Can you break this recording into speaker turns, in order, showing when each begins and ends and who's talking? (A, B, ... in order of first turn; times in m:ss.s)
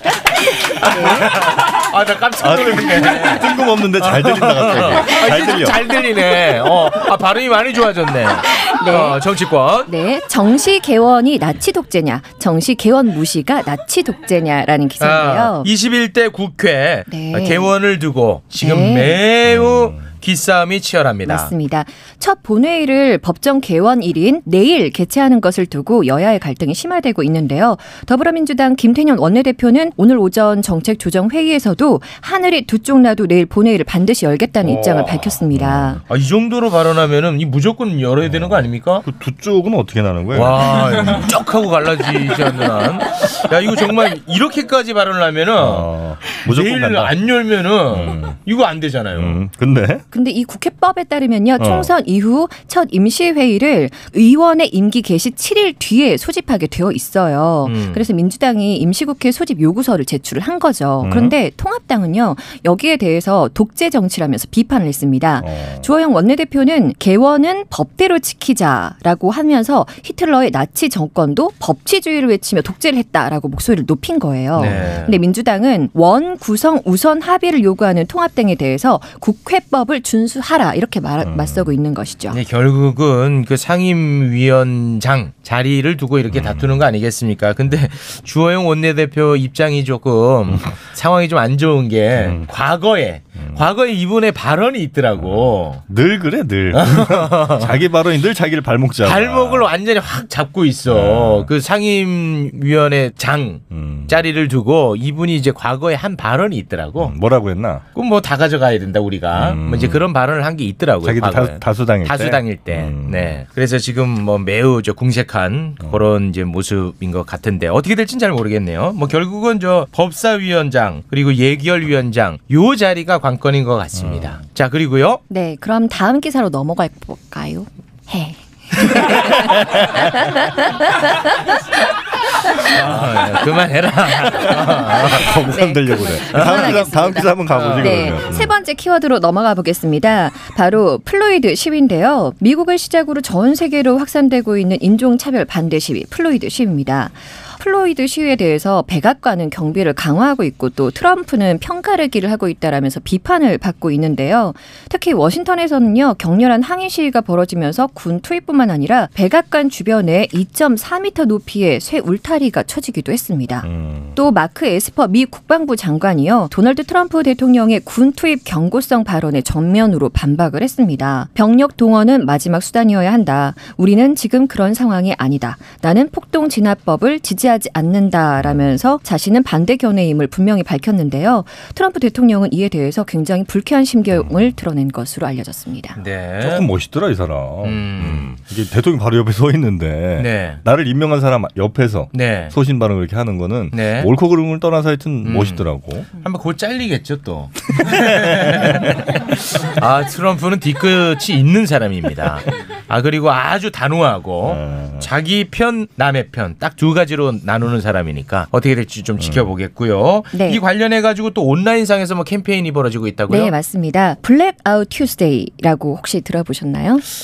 0:00.7-0:09.9 A
0:00.8-0:01.3 B
0:02.4-0:05.8 C
0:08.6-0:09.2 B
0:09.8-0:15.7 B
0:15.0-0:21.5 A
0:17.1-0:17.7 B
0:18.6-0:19.2 B
0:19.5-0:20.0 C
0:21.2-0:36.0 B
0:34.6-0:35.4 A
0:35.5-0:36.0 C
0:36.1-0:39.0 A
0:38.2-0:41.2 C
0:40.3-0:49.4 A
0:45.6-0:47.2 C
0:47.9-0:48.4 C
0:49.1-0:50.0 C
0:50.1-1:22.4 B
0:51.6-0:51.9 C
0:57.6-0:58.0 A
1:01.0-1:01.3 C
1:05.4-1:05.9 C
1:14.6-1:15.2 A
1:14.7-1:15.0 C
1:21.2-1:21.7 C
1:22.3-1:35.8 A
1:26.3-1:26.7 C
1:32.2-1:32.5 C
1:35.2-1:39.7 C
1:36.7-1:37.7 A
1:39.0-1:47.1 A
1:40.9-1:41.5 C
1:43.7-1:44.2 C
1:47.0-1:47.8 C
1:47.9-2:05.2 A
1:49.3-1:50.0 C
1:51.0-1:53.4 C
2:03.9-2:04.3 C
2:05.3-2:11.3 B
2:12.6-2:15.3 A
2:14.3-2:18.5 C
2:15.5-3:06.0 B
2:16.3-2:16.8 A
2:17.4-2:18.2 A
2:43.6-2:44.2 C
3:06.0-3:06.7 A
3:06.4-3:16.1 C
3:07.6-3:08.3 A
3:10.2-3:10.6 A
3:12.1-3:12.5 A
3:13.7-3:14.1 A
3:15.2-3:33.5 A
3:17.8-3:19.0 C
3:24.4-3:25.1 C
3:29.2-3:29.5 C
3:30.3-3:30.6 B
3:33.3-3:37.0 B